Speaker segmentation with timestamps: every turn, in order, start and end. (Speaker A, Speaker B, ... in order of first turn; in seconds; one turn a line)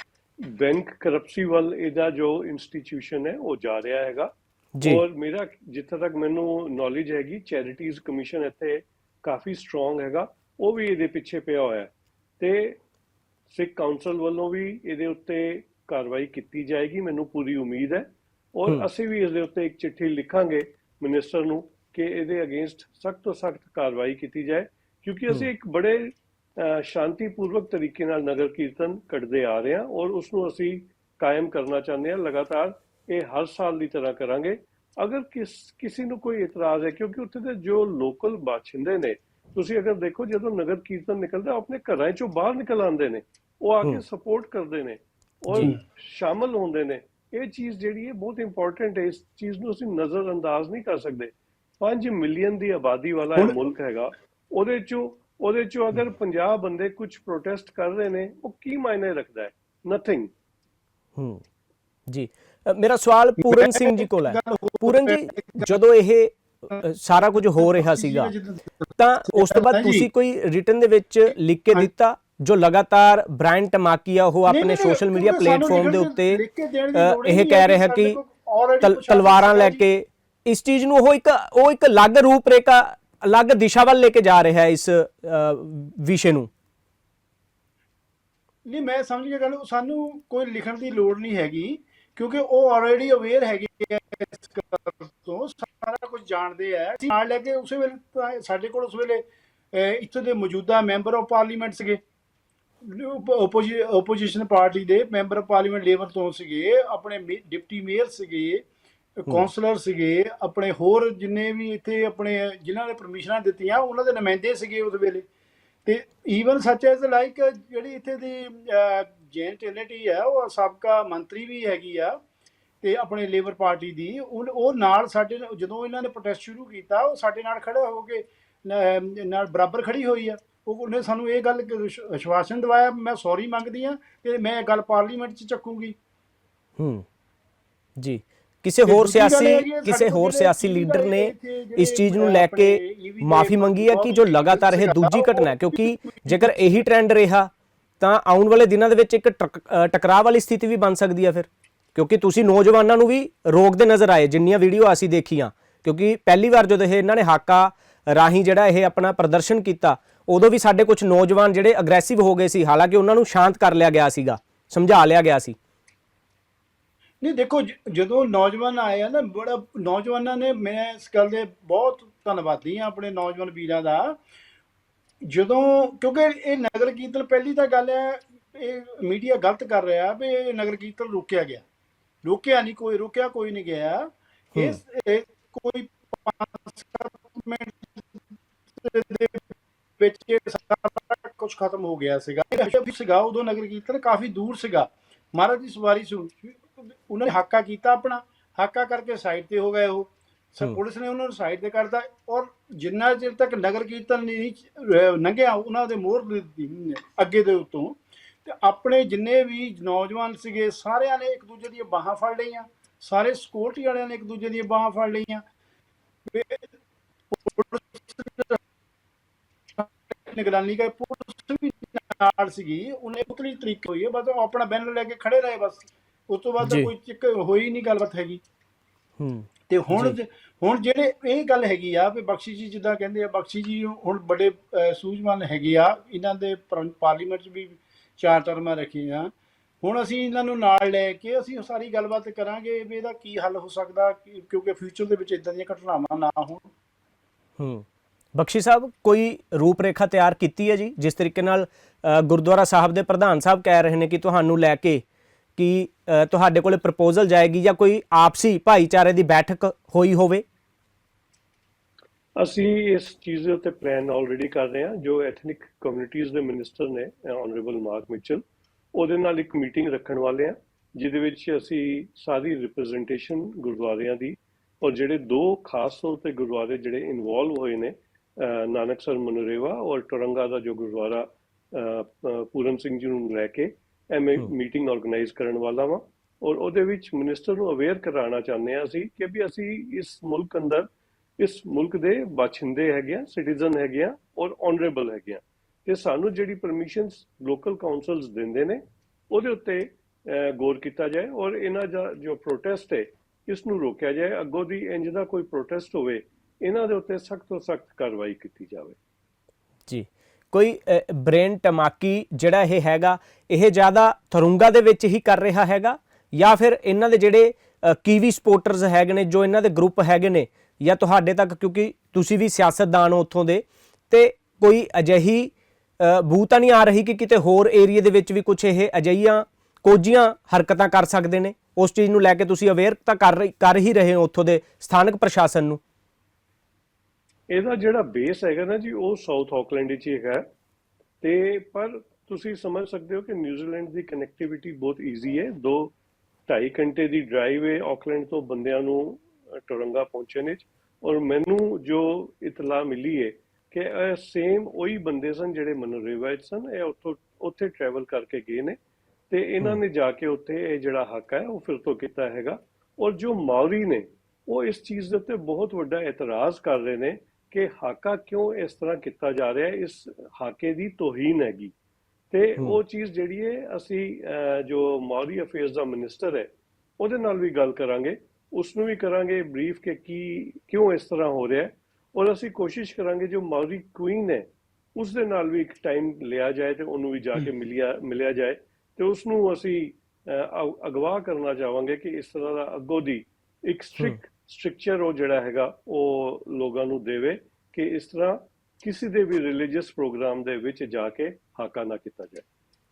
Speaker A: 0.5-4.3
Speaker B: 4.8-5.0
Speaker A: 4.8-12.8
Speaker A: 13.5-60.3
Speaker B: 61.2-61.4
Speaker B: 62.1-68.3
Speaker C: 63.4-65.8
Speaker C: 67.5-70.1
Speaker B: 69.0-76.4
Speaker C: 74.5-79.8
Speaker B: 76.9-78.2
Speaker B: 78.8-86.5
Speaker C: 88.7-99.2
Speaker C: 99.7-102.0
Speaker C: 102.8-108.6
Speaker C: 109.2-115.2
Speaker C: 115.8-122.2
Speaker C: 122.8-135.9
Speaker B: 136.8-137.0
Speaker B: 138.0-165.6
Speaker C: 138.8-146.6
Speaker C: 167.2-174.2
Speaker C: 175.2-181.6
Speaker C: 182.2-215.4
Speaker C: 216.3-216.7
Speaker C: 217.3-218.6
Speaker C: 219.8-228.4
Speaker B: 226.6-226.9
Speaker B: 229.2-230.2
Speaker C: 229.7-239.3
Speaker C: 239.8-246.7
Speaker B: 247.6-247.8
Speaker B: 248.3-255.0
Speaker B: 255.6-260.4
Speaker A: 262.4-268.4
Speaker A: 268.9-290.9
Speaker A: 291.4-308.9
Speaker B: 309.9-335.8
Speaker A: 337.5-340.4
Speaker A: 341.2-345.9
Speaker A: 346.5-358.8
Speaker A: 359.3-371.7
Speaker A: 372.3-402.4